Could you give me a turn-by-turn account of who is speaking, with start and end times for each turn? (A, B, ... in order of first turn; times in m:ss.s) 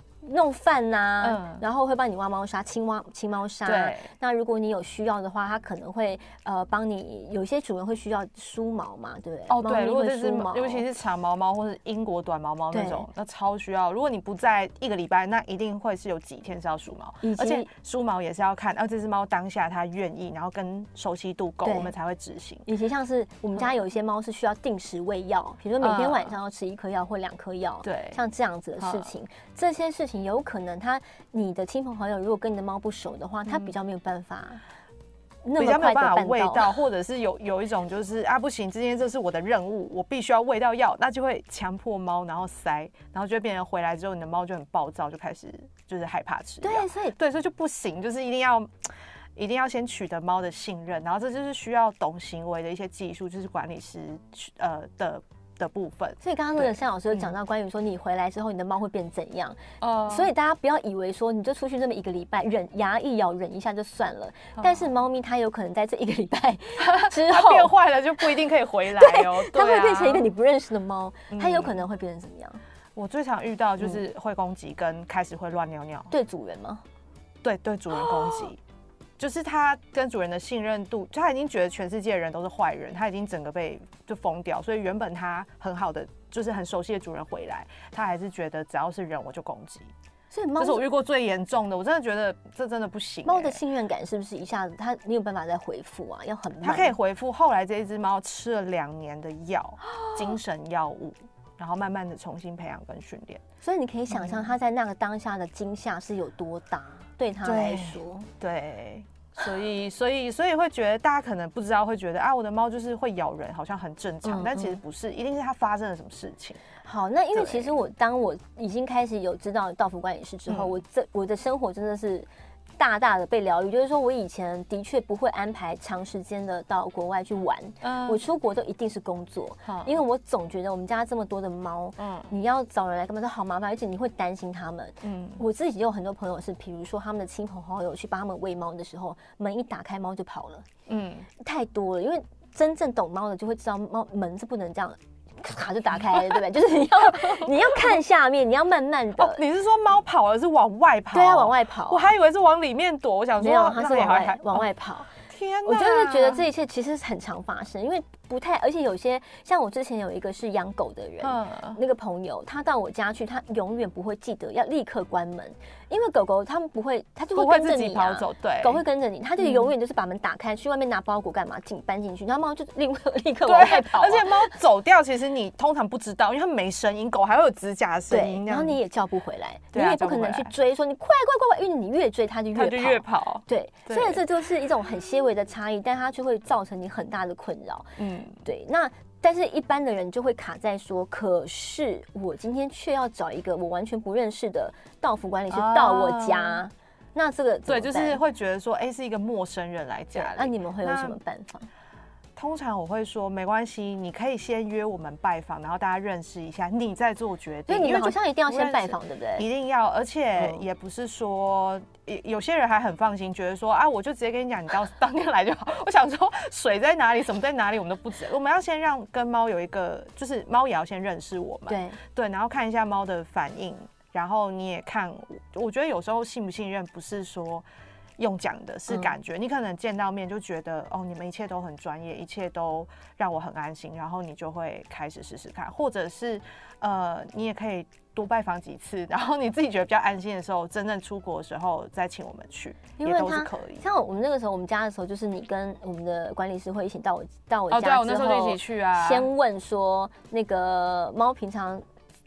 0:00.2-0:10.8 A
0:01.2-0:01.6 B
0:03.6-0:04.1 B
0:09.5-0:22.6 B
0:12.7-0:13.0 A
0:17.2-0:17.7 A
0:21.6-0:21.9 A
0:22.6-0:34.6 A
0:25.8-0:26.3 B
0:27.8-0:28.2 B
0:28.8-0:29.1 B
0:33.5-0:33.7 B
0:35.4-0:36.8 A
0:35.6-0:57.2 B
0:46.6-0:47.2 A
0:56.2-1:07.7 A
0:59.8-1:00.3 B
1:04.6-1:04.8 B
1:06.8-1:10.3 B
1:08.9-1:12.6 A
1:11.3-1:11.8 B
1:12.9-1:16.1 B
1:16.1-1:16.8 A
1:17.4-1:18.6 B
1:19.2-1:29.9 B
1:30.3-1:30.8 A
1:30.6-1:33.6 B
1:33.2-1:37.0 A
1:36.6-1:43.4 B
1:39.8-1:40.2 A
1:43.6-1:48.3 A
1:44.1-1:44.5 B
1:47.4-1:56.6 B
1:54.2-1:54.8 A
1:56.8-2:20.6 A
1:57.3-1:57.7 B
2:00.5-2:00.7 B
2:07.8-2:08.2 B
2:09.6-2:10.0 B
2:12.0-2:12.3 B
2:15.0-2:15.4 B
2:20.9-2:21.3 B
2:21.4-2:29.4 A
2:27.2-2:28.0 B
2:29.2-2:34.7 B
2:31.1-2:32.1 A
2:33.4-2:35.1 A
2:35.2-2:36.4 B
2:35.6-2:54.5 A
2:41.2-2:41.8 B
2:47.3-2:48.8 B
2:49.4-2:49.7 B
2:53.4-2:58.8 B
2:58.1-3:18.2 A
2:59.7-3:00.5 B
3:02.5-3:04.2 B
3:08.0-3:08.4 B
3:15.5-3:16.6 B
3:17.7-3:21.2 B
3:20.1-3:21.7 A
3:22.4-3:47.6 B
3:27.7-3:29.5 A
3:41.7-3:42.0 A
3:48.2-4:03.8 B
4:03.0-4:11.8 A
4:07.7-4:09.3 B